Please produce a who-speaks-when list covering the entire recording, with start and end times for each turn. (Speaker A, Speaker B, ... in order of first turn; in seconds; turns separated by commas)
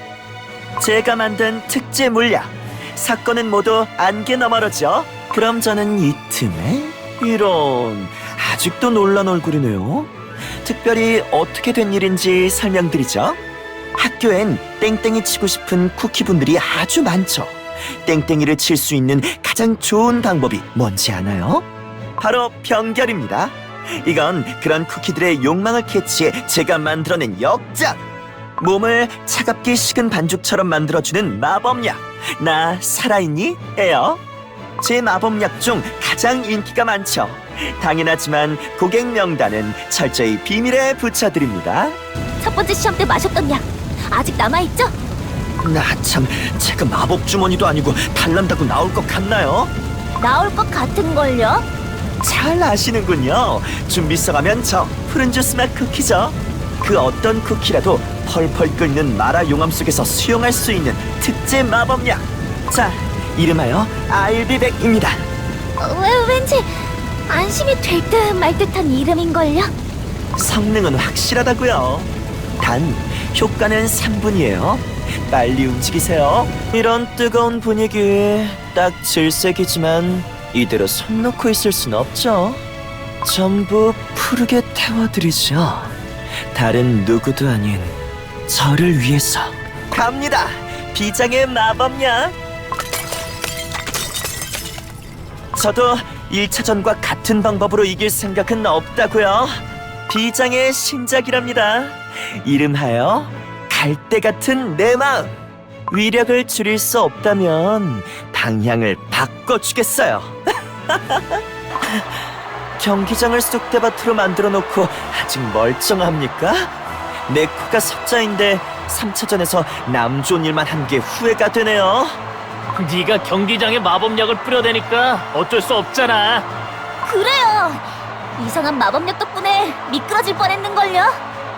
Speaker A: 0.8-10.1, Speaker A: 10.6-13.4, Speaker A: 13.9-21.6, Speaker A: 22.2-28.0, Speaker A: 28.6-34.2, Speaker A: 34.8-42.0, Speaker B: 42.4-44.9, Speaker A: 45.6-49.7, Speaker B: 50.2-51.6, Speaker A: 52.2-65.2, Speaker B: 65.8-69.7, Speaker A: 70.3-82.6, Speaker A: 83.2-85.9, Speaker A: 86.5-88.0, Speaker A: 88.5-92.3, Speaker A: 95.5-105.4, Speaker A: 105.9-110.4, Speaker A: 110.9-112.0, Speaker A: 112.8-116.7, Speaker A: 117.3-122.2, Speaker C: 122.7-126.5, Speaker B: 127.0-127.8, Speaker B: 128.4-131.2